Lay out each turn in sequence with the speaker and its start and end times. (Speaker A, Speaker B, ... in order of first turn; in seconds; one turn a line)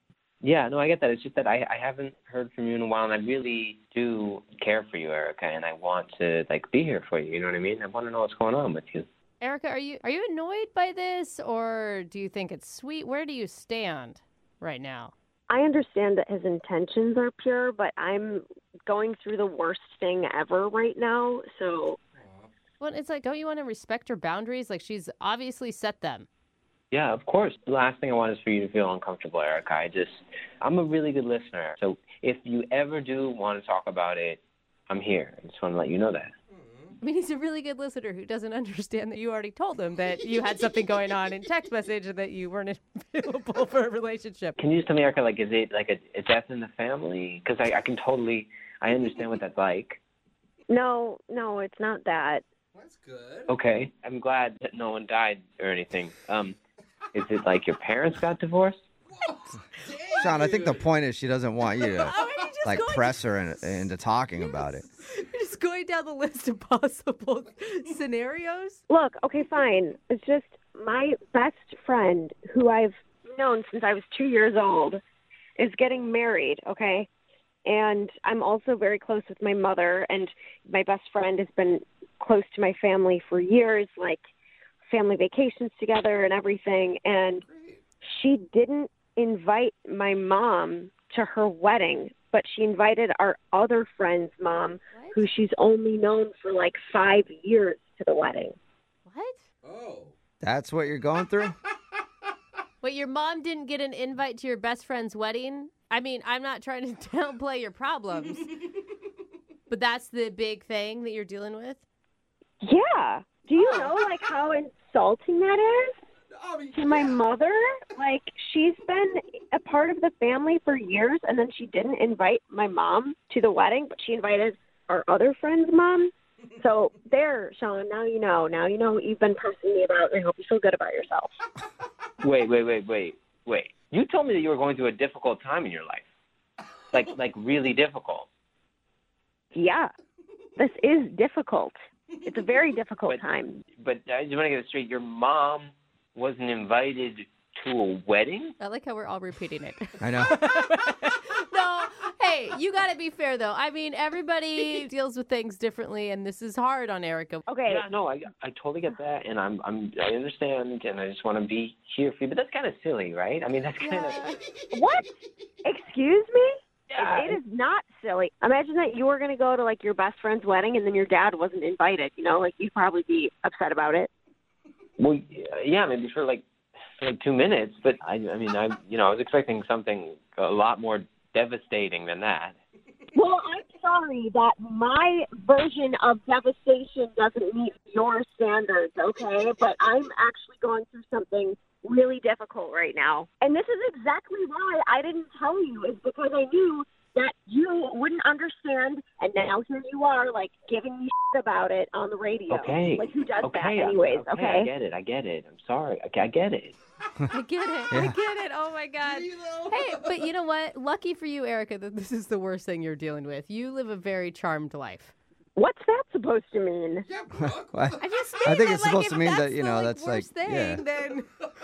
Speaker A: 0.4-9.1
Speaker B: 9.4-15.1
Speaker C: 15.5-22.0
Speaker D: 22.2-22.5
Speaker B: 22.8-26.3
Speaker A: 26.9-36.3
Speaker D: 36.6-36.9
Speaker B: 37.0-44.5
Speaker A: 44.6-50.0
Speaker C: 50.7-52.4
Speaker D: 52.7-53.5
Speaker A: 53.5-56.6
Speaker A: 57.1-58.8
Speaker D: 59.1-60.9
Speaker E: 60.2-64.8
Speaker D: 62.0-62.3
Speaker B: 62.0-63.2
Speaker B: 64.8-68.8
Speaker C: 68.9-75.0
Speaker C: 75.6-77.1
Speaker C: 77.6-84.2
Speaker C: 84.9-87.4
Speaker D: 87.4-87.8
Speaker C: 88.0-98.5
Speaker B: 94.9-95.2
Speaker B: 99.0-99.4
Speaker D: 99.6-100.1
Speaker E: 100.4-101.5
Speaker B: 102.8-108.6
Speaker B: 109.7-111.8
Speaker C: 112.6-115.9
Speaker B: 113.5-113.9
Speaker D: 116.3-117.2
Speaker C: 116.7-131.3
Speaker A: 132.2-136.0
Speaker A: 136.9-138.3
Speaker C: 139.5-139.9
Speaker C: 140.6-141.7
Speaker C: 142.2-143.6
Speaker A: 143.8-148.5
Speaker B: 148.6-157.4
Speaker E: 150.0-150.3
Speaker C: 157.5-157.8
Speaker A: 157.7-164.2
Speaker B: 163.8-164.4
Speaker C: 164.7-165.1
Speaker C: 165.6-174.1
Speaker A: 166.9-167.4
Speaker A: 175.0-176.4
Speaker A: 177.0-182.6
Speaker C: 183.1-204.7
Speaker A: 202.5-206.7
Speaker B: 207.3-215.1
Speaker D: 209.0-210.3
Speaker C: 215.6-217.0
Speaker D: 217.0-218.0
Speaker E: 217.7-220.8
Speaker B: 218.0-221.3